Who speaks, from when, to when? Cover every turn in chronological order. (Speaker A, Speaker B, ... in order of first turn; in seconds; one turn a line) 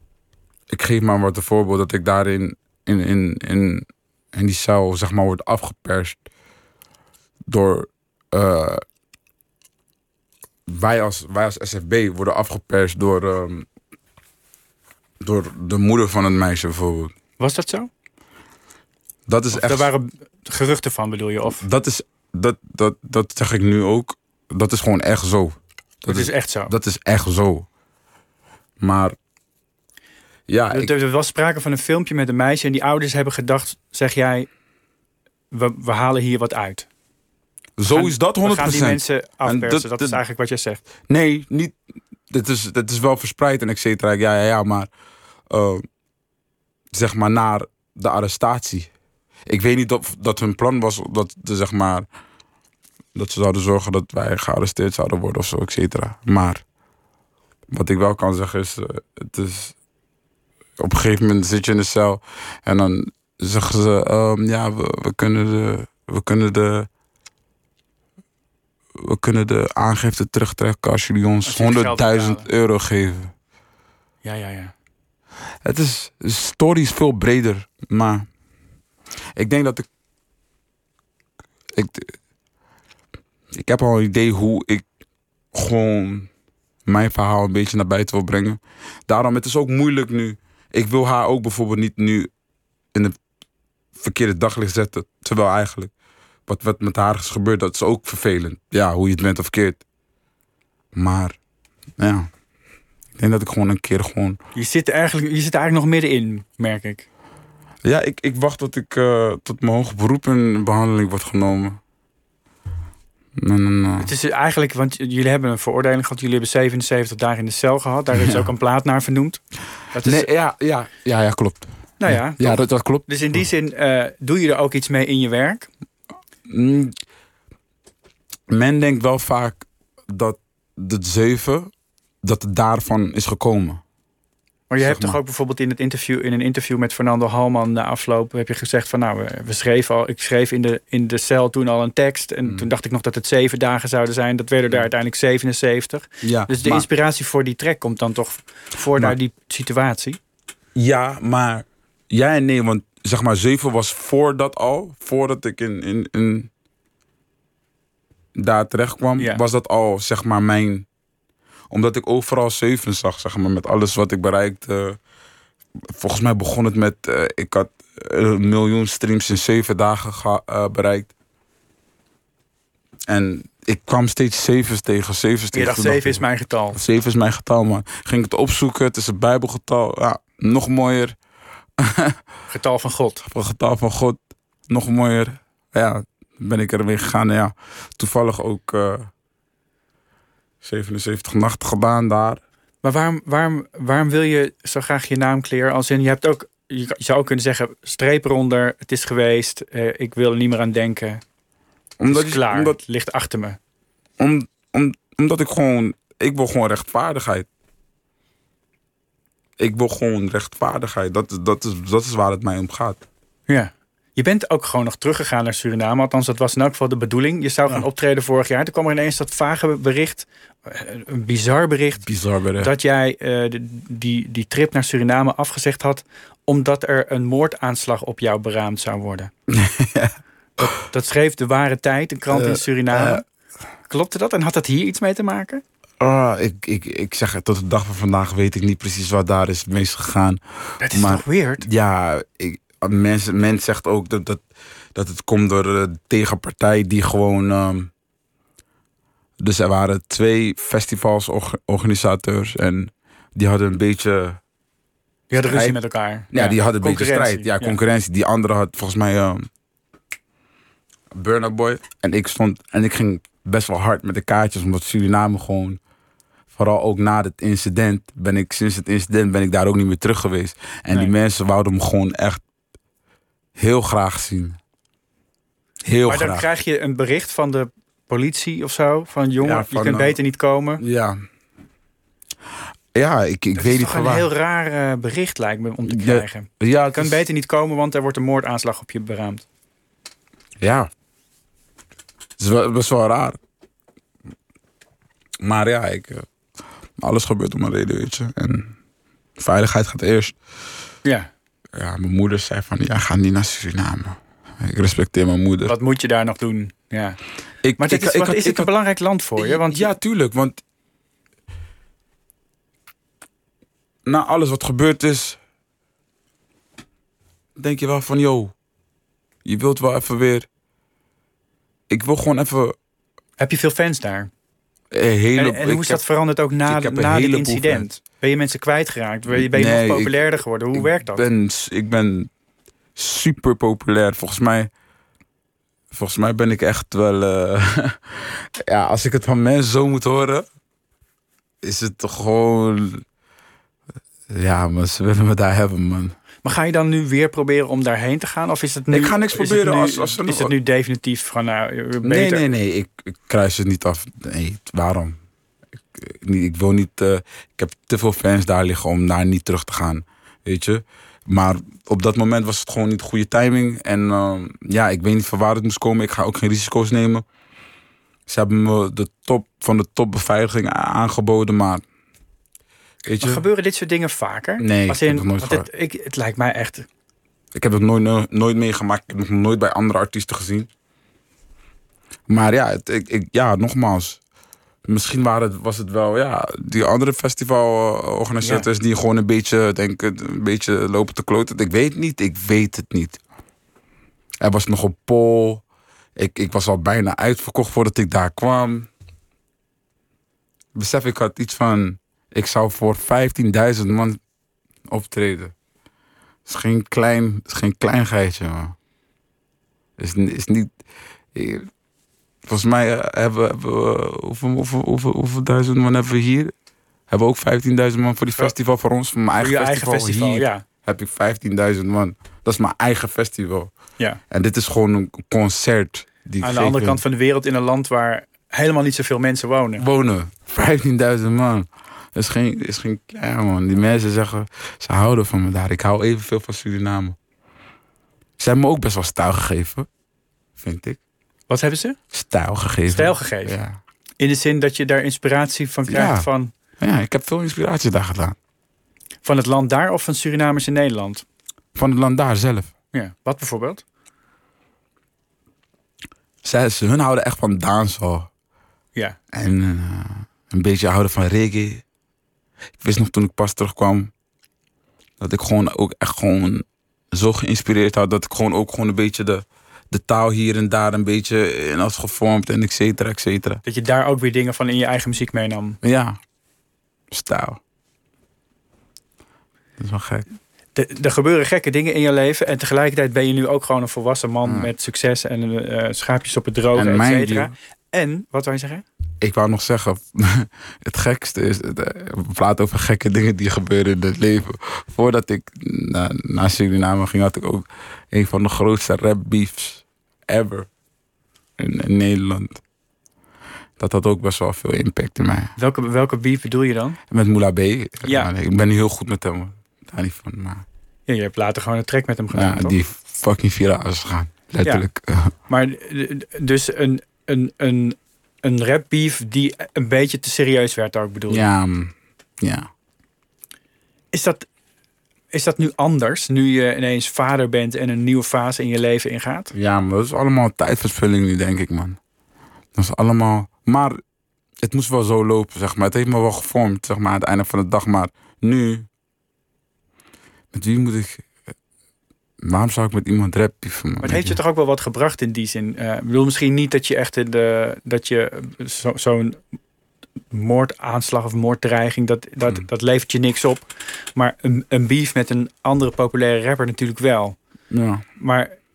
Speaker A: 0.7-6.2
Speaker A: 7.5-8.8
Speaker A: 10.7-13.7
Speaker A: 15.2-17.1
Speaker B: 17.4-17.9
Speaker A: 19.3-19.9
Speaker B: 19.5-21.6
Speaker A: 21.6-27.6
Speaker B: 26.1-26.7
Speaker A: 28.8-29.1
Speaker A: 30.5-30.9
Speaker B: 30.7-34.5
Speaker B: 35.5-36.9
Speaker A: 37.8-40.2
Speaker B: 37.9-40.8
Speaker A: 41.1-41.8
Speaker A: 42.3-44.9
Speaker A: 45.5-45.9
Speaker A: 46.9-48.9
Speaker A: 49.5-52.1
Speaker A: 53.1-56.6
Speaker A: 57.7-59.7
Speaker A: 60.8-66.9
Speaker A: 68.9-73.3
Speaker B: 71.5-72.5
Speaker B: 74.2-74.7
Speaker A: 75.6-78.3
Speaker A: 79.3-79.9
Speaker A: 81.7-82.2
Speaker A: 83.5-84.8
Speaker A: 85.5-86.3
Speaker A: 86.8-92.3
Speaker A: 93.9-95.9
Speaker A: 96.5-99.8
Speaker A: 100.9-101.4
Speaker A: 102.0-102.3
Speaker A: 103.2-104.4
Speaker B: 104.5-107.0
Speaker A: 107.8-111.8
Speaker A: 113.3-114.1
Speaker B: 114.0-119.4
Speaker A: 118.1-118.5
Speaker B: 119.9-120.3
Speaker A: 120.0-123.4
Speaker B: 122.0-125.7
Speaker A: 126.5-127.0
Speaker A: 128.5-131.7
Speaker A: 132.2-133.8
Speaker B: 134.7-150.2
Speaker A: 134.8-135.2
Speaker A: 146.2-146.9
Speaker A: 150.7-156.5
Speaker A: 158.3-160.8
Speaker A: 161.7-165.0
Speaker A: 165.8-171.1
Speaker A: 173.1-181.2
Speaker B: 175.5-176.8
Speaker A: 181.8-182.2
Speaker B: 182.5-183.2
Speaker A: 183.2-189.1
Speaker A: 190.6-192.4
Speaker B: 192.8-201.2
Speaker A: 202.0-202.8
Speaker B: 202.1-203.6
Speaker A: 204.2-207.5
Speaker A: 209.6-213.0
Speaker B: 213.5-222.1
Speaker A: 222.0-222.7
Speaker B: 222.6-229.3
Speaker A: 229.5-230.2
Speaker B: 230.6-233.2
Speaker A: 232.3-233.2
Speaker B: 233.9-235.6
Speaker A: 236.0-247.9
Speaker B: 240.8-241.7
Speaker A: 249.4-254.4
Speaker B: 255.3-257.8
Speaker A: 255.4-255.8
Speaker A: 256.3-259.5
Speaker A: 261.1-265.8
Speaker A: 266.5-272.4
Speaker A: 273.5-274.6
Speaker A: 275.8-276.5
Speaker B: 276.1-280.8
Speaker A: 279.4-280.2
Speaker A: 280.8-281.2
Speaker A: 282.9-284.3
Speaker B: 283.6-289.4
Speaker A: 285.9-287.2
Speaker A: 290.6-290.9
Speaker A: 292.4-293.4
Speaker A: 295.4-296.3
Speaker A: 297.0-298.8
Speaker A: 299.4-300.4
Speaker A: 301.7-305.7
Speaker B: 305.6-307.2
Speaker A: 307.6-308.7
Speaker B: 307.8-309.9
Speaker A: 309.4-310.6
Speaker A: 314.1-315.4
Speaker A: 317.6-318.5
Speaker A: 319.4-320.5
Speaker A: 321.9-322.8
Speaker B: 323.4-324.3
Speaker A: 324.9-326.0
Speaker B: 325.4-331.2
Speaker A: 326.6-327.9
Speaker A: 329.3-330.2
Speaker A: 330.7-332.3
Speaker A: 332.9-334.7
Speaker A: 335.9-340.4
Speaker A: 341.6-343.0
Speaker A: 344.3-346.1
Speaker B: 346.4-352.4
Speaker A: 348.9-350.5
Speaker A: 352.0-355.2
Speaker A: 355.9-367.2
Speaker A: 368.3-371.8
Speaker A: 373.1-373.4
Speaker B: 373.2-376.9
Speaker A: 374.6-375.6
Speaker A: 377.5-380.7
Speaker A: 382.3-384.2
Speaker A: 384.9-393.2
Speaker B: 388.4-388.7
Speaker A: 394.4-395.6
Speaker A: 396.1-398.9
Speaker A: 400.7-404.2
Speaker A: 404.9-405.5
Speaker A: 406.4-408.8
Speaker A: 410.0-410.7
Speaker A: 411.3-411.7
Speaker A: 412.4-416.5
Speaker A: 417.1-423.7
Speaker B: 419.4-420.6
Speaker A: 424.3-427.0
Speaker B: 426.4-429.8
Speaker A: 429.8-437.1
Speaker A: 438.4-439.9
Speaker A: 440.6-441.0
Speaker B: 441.5-442.0
Speaker A: 442.1-443.8
Speaker B: 442.9-443.6
Speaker B: 444.2-446.5
Speaker A: 445.9-446.3
Speaker A: 446.8-448.4
Speaker B: 449.2-451.2
Speaker A: 451.7-452.7
Speaker B: 452.9-453.8
Speaker A: 456.4-458.3
Speaker A: 459.3-461.8
Speaker A: 462.8-464.1
Speaker A: 465.2-473.6
Speaker B: 473.6-475.8
Speaker A: 475.8-476.2
Speaker A: 477.1-477.6
Speaker A: 479.8-480.2
Speaker B: 480.7-488.8
Speaker A: 484.4-484.7
Speaker A: 486.7-487.5
Speaker A: 489.2-500.7
Speaker A: 501.6-502.6
Speaker A: 503.8-505.5
Speaker B: 505.6-507.0
Speaker A: 507.1-510.6
Speaker B: 508.0-508.3
Speaker B: 511.1-512.8
Speaker A: 512.3-515.3
Speaker B: 515.5-521.4
Speaker A: 521.3-522.7
Speaker B: 524.1-524.5
Speaker B: 525.3-529.5
Speaker A: 529.5-532.0
Speaker A: 532.7-534.0
Speaker A: 534.6-538.9
Speaker A: 540.5-541.3
Speaker A: 542.4-544.4
Speaker B: 544.0-549.4
Speaker B: 550.3-557.4
Speaker A: 557.7-558.0
Speaker B: 558.2-558.5